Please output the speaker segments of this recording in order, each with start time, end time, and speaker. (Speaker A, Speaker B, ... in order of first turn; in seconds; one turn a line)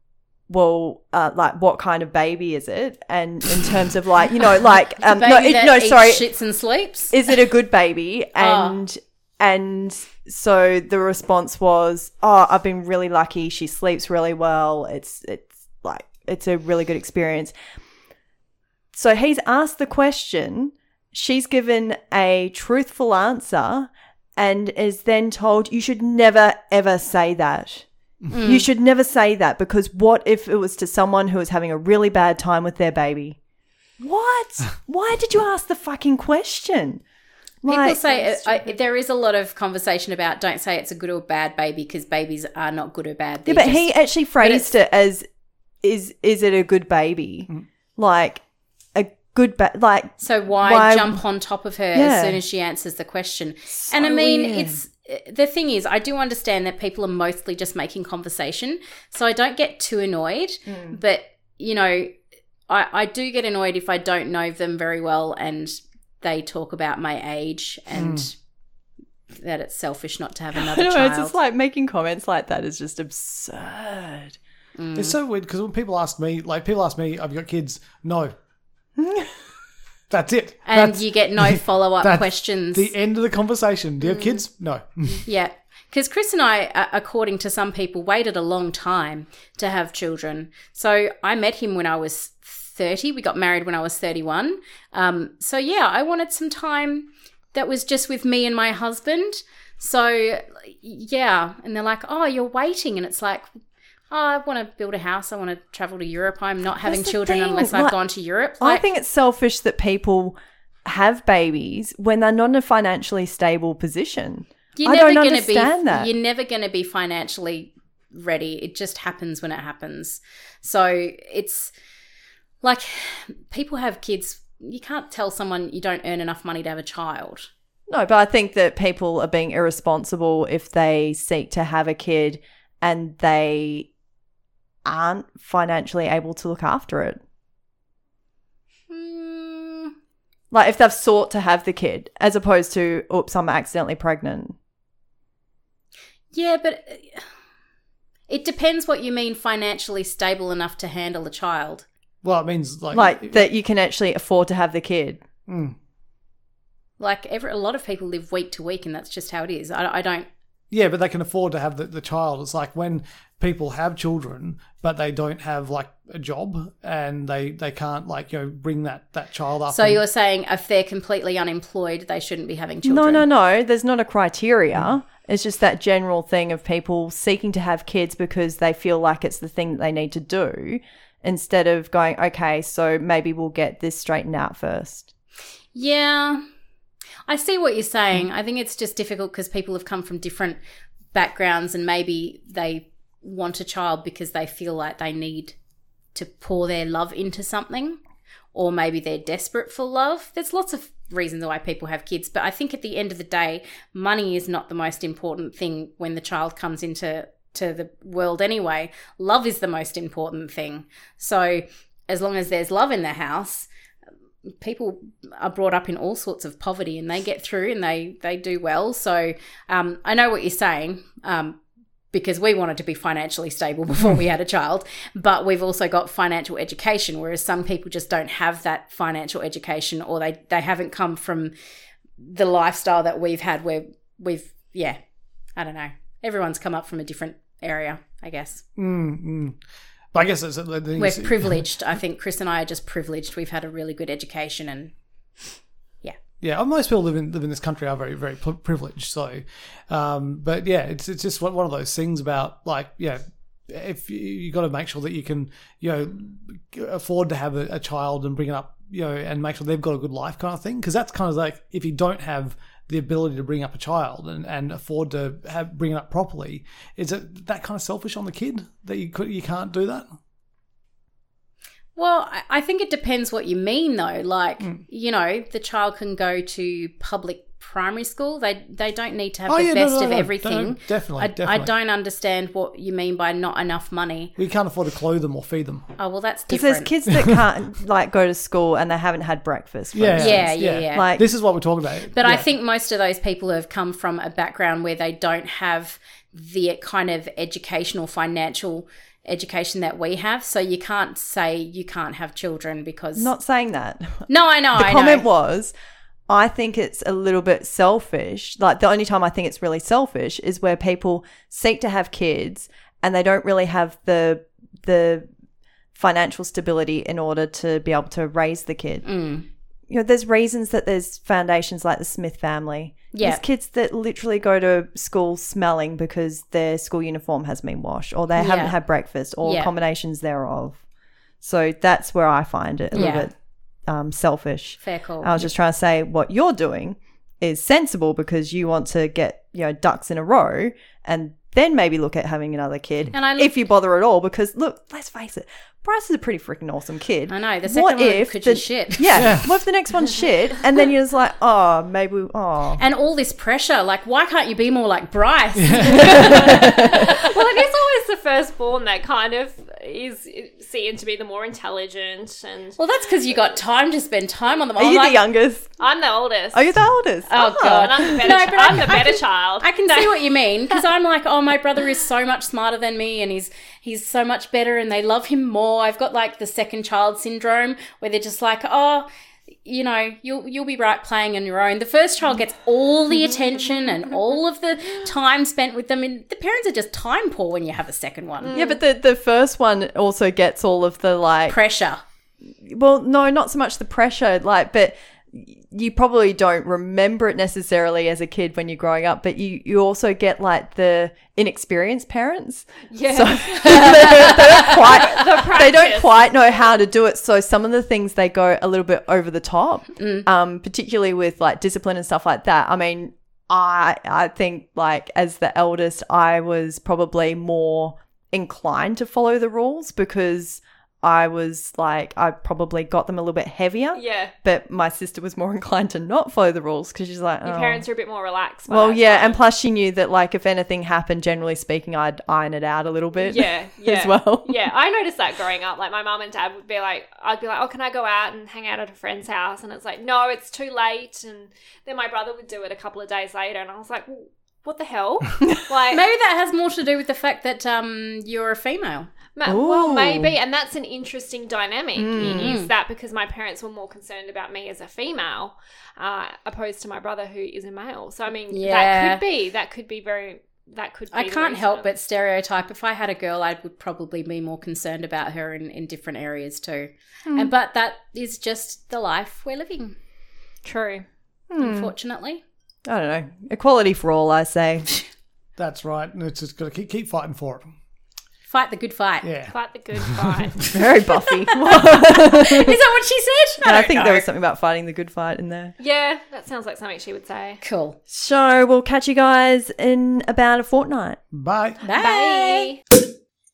Speaker A: 0.5-6.2
Speaker B: 5.0-7.2
Speaker A: 7.1-17.6
Speaker B: 8.4-8.8
Speaker A: 18.9-27.9
Speaker B: 28.3-28.7
Speaker A: 28.4-33.4
Speaker A: 34.0-37.0
Speaker A: 37.6-38.8
Speaker B: 37.7-43.9
Speaker A: 43.5-45.3
Speaker B: 44.4-44.7
Speaker A: 45.8-48.4
Speaker A: 49.0-51.2
Speaker B: 50.2-62.1
Speaker A: 51.9-52.4
Speaker A: 53.7-54.8
Speaker A: 60.7-61.0
Speaker B: 62.7-68.3
Speaker C: 67.9-68.3
Speaker B: 69.3-71.4
Speaker A: 70.5-74.4
Speaker B: 74.8-75.2
Speaker C: 75.0-78.3
Speaker A: 79.0-79.3
Speaker C: 80.1-85.2
Speaker B: 80.7-82.9
Speaker B: 85.2-103.5
Speaker B: 104.1-108.8
Speaker A: 106.8-108.0
Speaker A: 108.6-116.1
Speaker B: 114.8-121.7
Speaker B: 122.6-127.5
Speaker A: 127.9-133.9
Speaker A: 134.9-137.2
Speaker B: 138.9-139.9
Speaker A: 140.5-144.6
Speaker B: 146.3-147.2
Speaker B: 148.3-151.9
Speaker C: 152.2-153.5
Speaker A: 152.9-155.2
Speaker C: 155.5-155.8
Speaker B: 157.0-160.3
Speaker C: 160.7-170.0
Speaker B: 169.7-173.3
Speaker A: 172.8-185.1
Speaker B: 185.7-186.4
Speaker B: 187.3-190.6
Speaker B: 191.1-195.6
Speaker B: 196.2-198.0
Speaker B: 198.5-213.7
Speaker B: 214.6-221.6
Speaker B: 222.1-231.5
Speaker B: 232.2-235.0
Speaker B: 235.6-238.6
Speaker C: 238.8-239.6
Speaker C: 240.1-241.7
Speaker B: 241.0-244.9
Speaker C: 246.4-270.1
Speaker B: 272.0-284.3
Speaker C: 279.5-281.7
Speaker C: 284.4-285.9
Speaker B: 286.0-286.9
Speaker A: 286.5-291.2
Speaker C: 287.1-287.4
Speaker C: 289.9-292.5
Speaker B: 290.2-291.1
Speaker B: 292.1-303.3
Speaker A: 303.2-305.7
Speaker B: 304.3-305.3
Speaker A: 306.3-315.3
Speaker A: 315.9-319.0
Speaker B: 319.1-319.5
Speaker A: 319.9-330.8
Speaker B: 323.1-323.4
Speaker B: 328.4-328.8
Speaker B: 329.4-329.7
Speaker A: 331.4-333.3
Speaker B: 332.9-333.3
Speaker A: 333.9-352.8
Speaker B: 334.8-335.5
Speaker B: 343.1-343.5
Speaker B: 347.3-349.4
Speaker C: 349.1-349.6
Speaker B: 352.8-357.3
Speaker C: 355.6-356.3
Speaker A: 356.1-357.1
Speaker D: 356.1-362.8
Speaker B: 362.8-365.2
Speaker A: 364.8-365.7
Speaker D: 365.8-366.6
Speaker A: 366.5-368.2
Speaker B: 367.3-379.1
Speaker D: 367.7-370.8
Speaker B: 379.6-388.6
Speaker D: 388.4-388.8
Speaker A: 388.5-391.6
Speaker B: 391.5-392.0
Speaker A: 392.6-427.8
Speaker D: 402.9-406.3
Speaker B: 410.0-410.3
Speaker D: 423.9-424.3
Speaker D: 427.4-429.4
Speaker A: 428.7-434.6
Speaker D: 433.2-446.1
Speaker B: 445.9-449.1
Speaker D: 449.4-461.9
Speaker A: 449.5-450.3
Speaker A: 452.0-452.6
Speaker B: 452.3-452.7
Speaker B: 458.5-459.2
Speaker B: 461.1-469.9
Speaker D: 470.6-471.1
Speaker A: 471.5-471.9
Speaker B: 471.6-472.4
Speaker A: 472.9-475.0
Speaker C: 475.6-477.7
Speaker B: 478.5-479.3
Speaker C: 479.2-479.5
Speaker D: 479.5-480.7
Speaker A: 480.7-482.8
Speaker B: 481.1-484.3
Speaker A: 483.6-485.8
Speaker D: 485.8-487.6
Speaker B: 487.6-488.0
Speaker A: 488.1-491.2
Speaker C: 491.3-491.8
Speaker B: 491.8-492.7
Speaker D: 491.8-492.8